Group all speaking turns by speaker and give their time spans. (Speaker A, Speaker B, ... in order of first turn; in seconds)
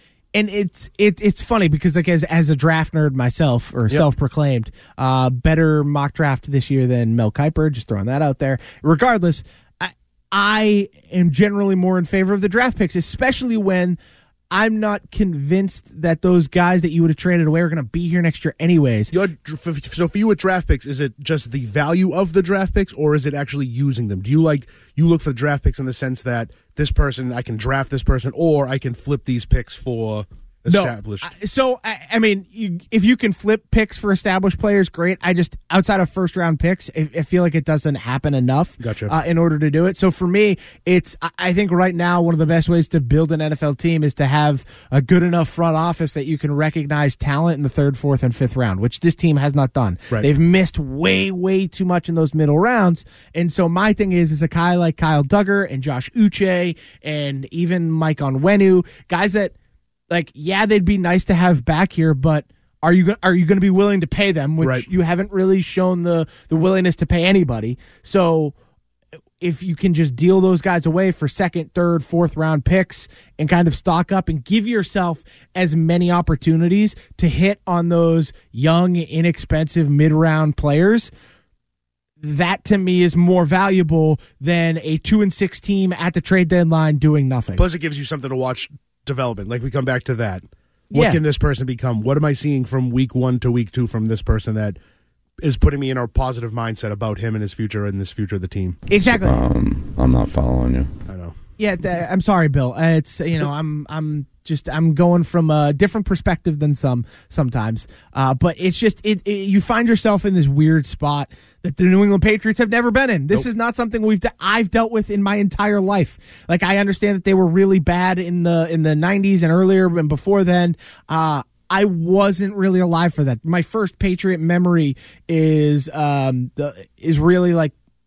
Speaker A: 0.3-14.0, 14.5-19.1, 30.7-59.5, 60.1-68.5, 69.4-81.1, 82.2-87.6, 90.9-91.2, 98.9-99.4, 101.6-127.7
Speaker B: 19.1-31.3, 38.8-39.1, 64.6-64.9, 87.5-94.8, 95.4-98.8, 101.1-101.3
Speaker C: 98.9-100.9